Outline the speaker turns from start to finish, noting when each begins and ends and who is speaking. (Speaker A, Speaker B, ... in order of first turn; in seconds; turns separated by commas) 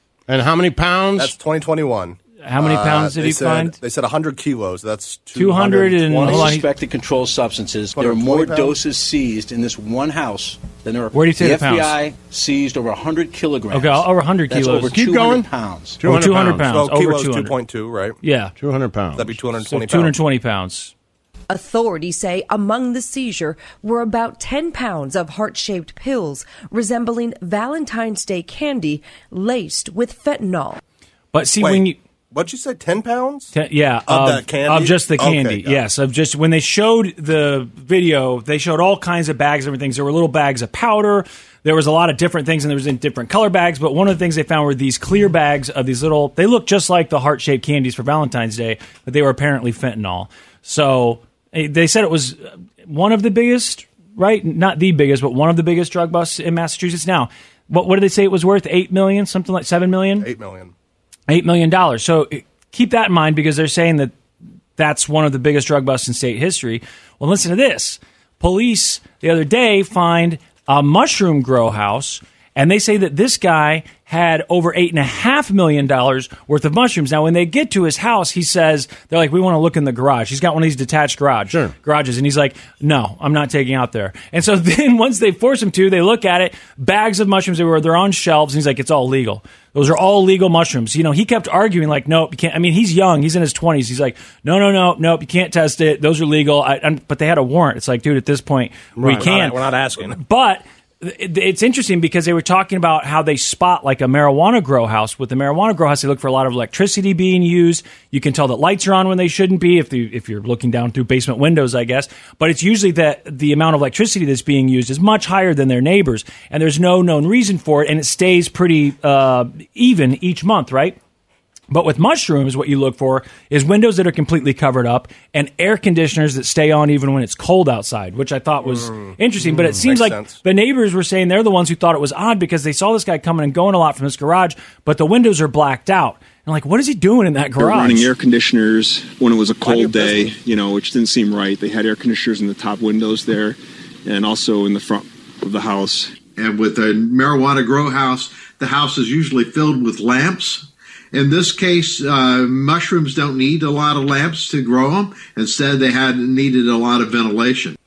Speaker A: 0.3-1.3, Speaker B: 1.2-6.6, Speaker C: 2.4-3.8, Speaker C: 5.4-6.7, Speaker D: 6.2-16.0, Speaker B: 8.0-8.8, Speaker C: 11.1-12.0, Speaker C: 13.7-15.0, Speaker A: 14.9-15.5, Speaker A: 16.0-16.7, Speaker C: 16.0-17.5, Speaker B: 16.7-18.2, Speaker C: 18.2-18.5, Speaker A: 18.6-19.3, Speaker B: 19.2-20.1, Speaker C: 19.6-20.9, Speaker E: 21.5-30.8, Speaker C: 31.3-32.0, Speaker B: 31.6-33.5, Speaker C: 33.5-60.3, Speaker B: 34.1-35.8, Speaker B: 60.2-60.7, Speaker C: 61.3-64.2, Speaker C: 64.8-121.0, Speaker A: 99.0-99.2, Speaker B: 99.0-100.2, Speaker C: 121.7-138.1, Speaker B: 128.6-130.4, Speaker F: 137.6-146.3, Speaker B: 139.6-140.3, Speaker G: 146.4-157.8